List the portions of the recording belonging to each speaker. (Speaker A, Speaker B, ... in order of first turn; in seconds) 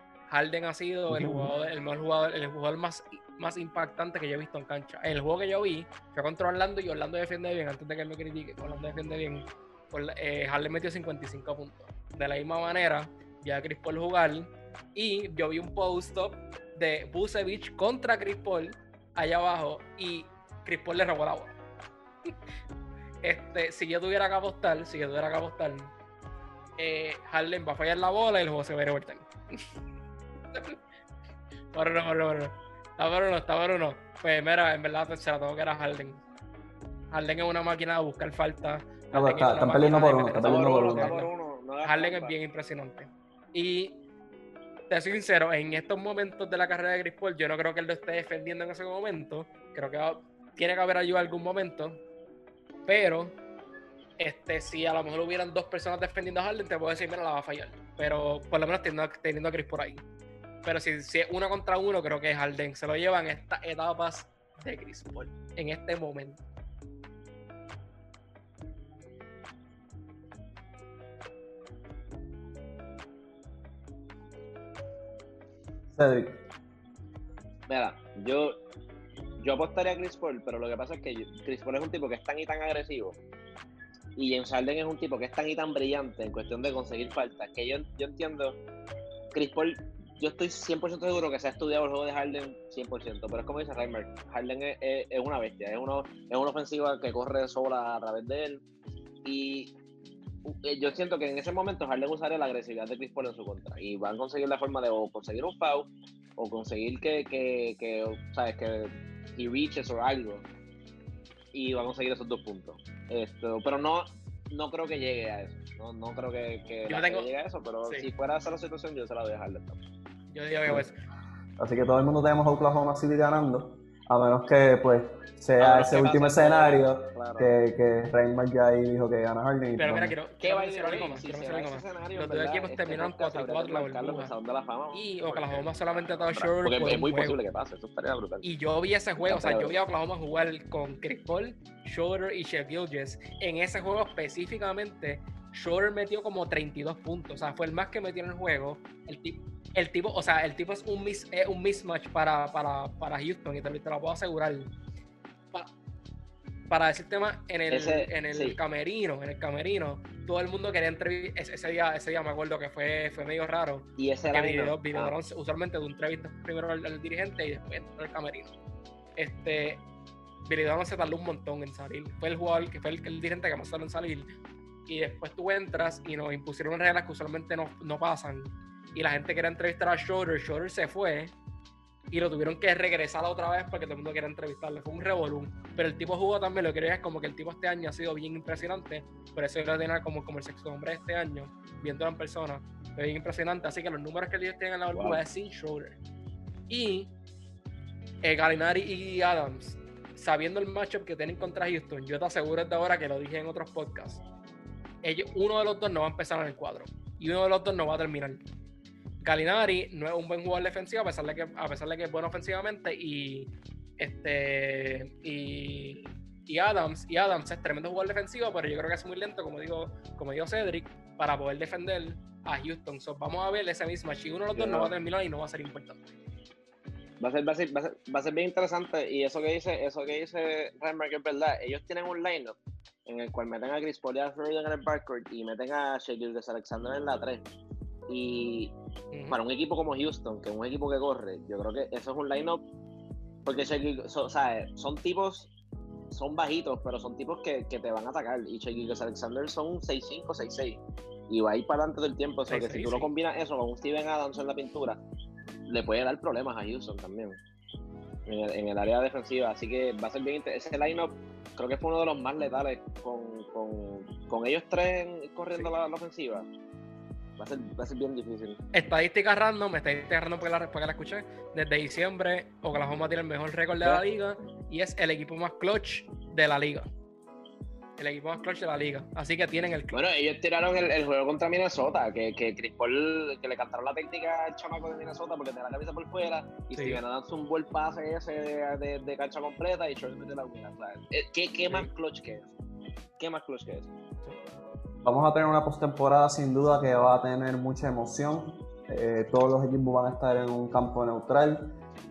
Speaker A: 0.3-21.6, 23.2-25.9, 26.8-29.7, 30.5-30.8, 31.7-36.2, 37.1-41.3, 41.8-44.0, 44.9-52.0, 52.9-53.4, 54.2-60.0, 60.6-66.4, 116.9-117.3, 120.3-121.0, 129.8-134.3, 134.9-137.3, 138.4-154.7, 156.7-168.5, 169.2-169.8, 170.4-174.3, 174.9-181.3, 182.1-196.0, 196.7-197.1, 198.2-204.2, 205.0-208.4, 209.2-226.0, 239.1-239.4, 252.5-253.1, 268.7-276.9, 278.0-280.0, 286.7-287.0
Speaker B: 1.1-1.5, 39.1-41.2, 75.9-76.4, 121.6-130.2, 295.0-301.8
Speaker C: 40.4-42.4, 77.7-78.5, 79.4-83.2, 84.2-88.6, 89.3-98.6, 99.2-99.7, 100.4-110.5, 111.5-119.8, 125.6-127.6, 130.4-138.5, 139.2-139.8, 157.7-158.6, 164.0-165.2, 194.9-195.2, 224.5-224.9, 227.2-237.4, 238.1-238.7, 239.3-242.6, 243.4-245.5, 246.1-255.0, 255.7-257.4, 258.2-266.5, 267.4-268.6, 279.9-292.5, 293.2-293.9